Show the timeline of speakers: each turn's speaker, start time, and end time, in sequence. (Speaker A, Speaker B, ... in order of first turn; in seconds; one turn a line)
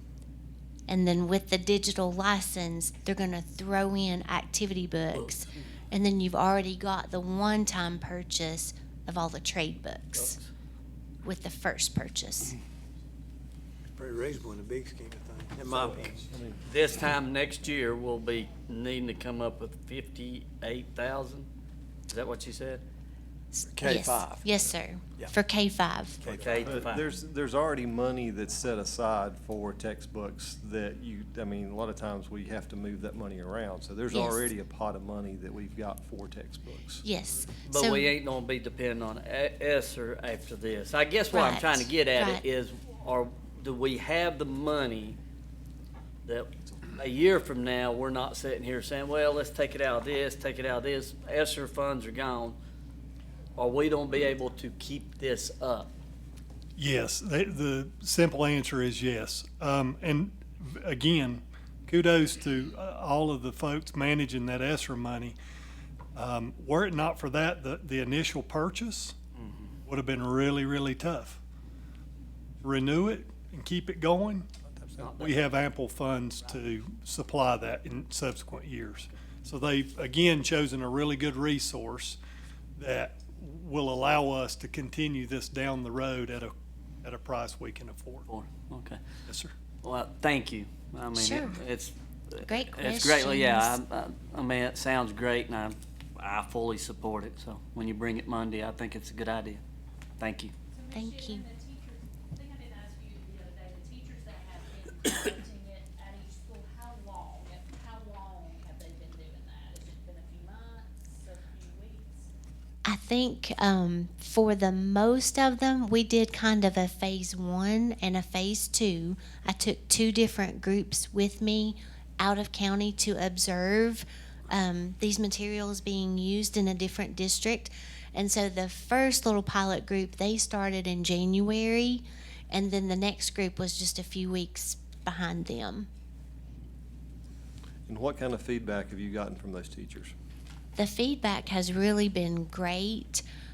Speaker A: 0.9-10.4
Speaker B: 10.2-10.5
Speaker A: 11.2-12.6
Speaker C: 14.0-16.3
Speaker D: 15.7-16.6
Speaker B: 16.6-21.5
Speaker B: 22.1-22.8
Speaker A: 23.5-26.2
Speaker C: 23.7-24.4
Speaker C: 26.2-26.7
Speaker B: 26.3-27.0
Speaker D: 26.4-37.0
Speaker A: 34.1-34.4
Speaker A: 37.0-38.1
Speaker B: 37.7-45.2
Speaker A: 41.3-42.4
Speaker B: 46.3-52.6
Speaker B: 53.6-55.9
Speaker E: 56.8-65.4
Speaker E: 66.2-69.2
Speaker E: 69.9-71.4
Speaker E: 72.6-82.2
Speaker B: 75.0-75.4
Speaker E: 82.8-88.3
Speaker B: 88.3-89.0
Speaker E: 89.3-89.5
Speaker B: 89.8-99.6
Speaker A: 91.1-91.6
Speaker A: 92.5-93.8
Speaker B: 100.2-100.5
Speaker F: 100.7-112.3
Speaker A: 100.9-101.5
Speaker A: 112.8-135.9
Speaker D: 137.9-140.1
Speaker A: 140.8-143.2